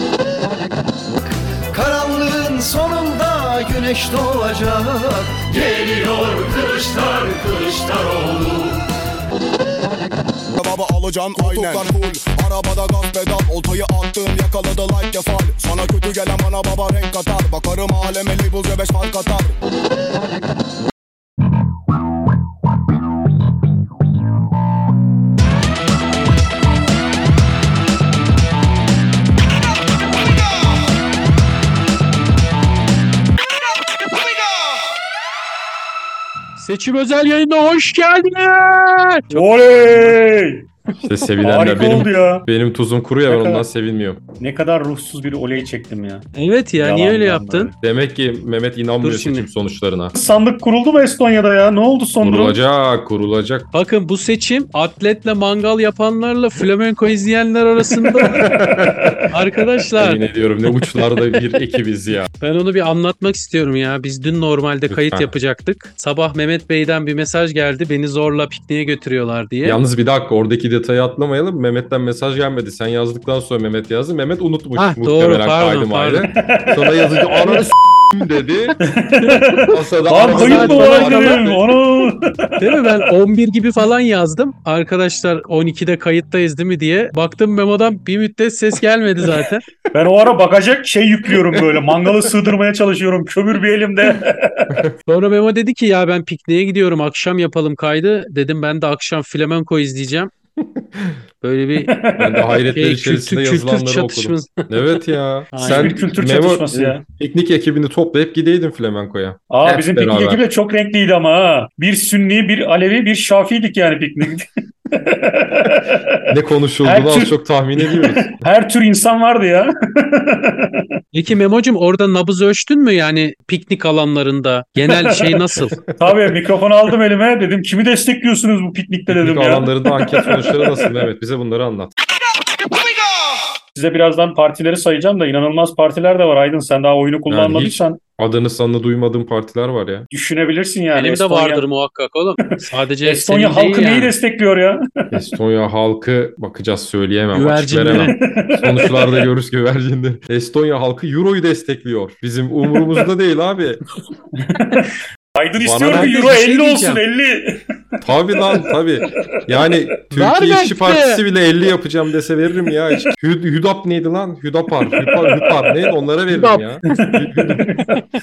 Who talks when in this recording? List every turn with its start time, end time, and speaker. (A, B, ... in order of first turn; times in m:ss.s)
0:01.7-0:08.8 A
0:10.6-0:19.5 B
0:11.4-0:11.9 A
0:36.6-0:39.5 C
0:39.3-0:40.7 D
0:41.0-0:44.2 E
0:41.4-0:42.5 D
0:43.3-0:43.6 D
0:44.4-0:46.3 D
0:46.4-0:47.7 C
0:46.8-0:47.7 D
0:47.8-0:50.1 E
0:49.0-0:49.4 C
0:50.2-0:52.6 D
0:52.2-0:53.7 E
0:53.7-0:58.4 C
0:58.2-0:59.3 E
0:59.3-1:00.2 C
1:00.0-1:02.3 E
1:02.4-1:09.8 C
1:04.9-1:05.3 E
1:09.6-1:18.8 E
1:14.8-1:16.3 C
1:16.4-1:17.7 D
1:18.8-1:23.0 D
1:19.6-1:21.7 E
1:20.2-1:21.6 C
1:22.6-1:29.6 C
1:29.9-1:34.8 D
1:31.5-1:31.8 E
1:35.1-1:40.3 C
1:40.6-1:41.2 E
1:41.4-1:41.9 C
1:41.9-1:42.6 D
1:42.2-1:50.4 E
1:42.7-1:44.7 C
1:45.5-1:46.0 C
1:45.6-1:47.0 D
1:49.5-2:00.9 D
1:56.3-1:58.3 E
2:01.1-2:05.8 C
2:04.9-2:05.4 D
2:05.9-2:11.0 D
2:09.1-2:11.9 E
2:13.8-2:18.0 D
2:17.3-2:20.1 E
2:20.1-2:21.6 D
2:21.0-2:24.1 C
2:23.0-2:25.1 D
2:25.1-2:33.8 E
2:27.3-2:28.2 C
2:28.1-2:29.2 D
2:34.4-2:38.7 D
2:35.6-2:36.2 E
2:35.9-2:37.0 C
2:38.0-2:47.7 E
2:40.1-2:41.2 C
2:44.9-2:45.8 D
2:46.3-2:46.8 C
2:46.9-2:48.0 D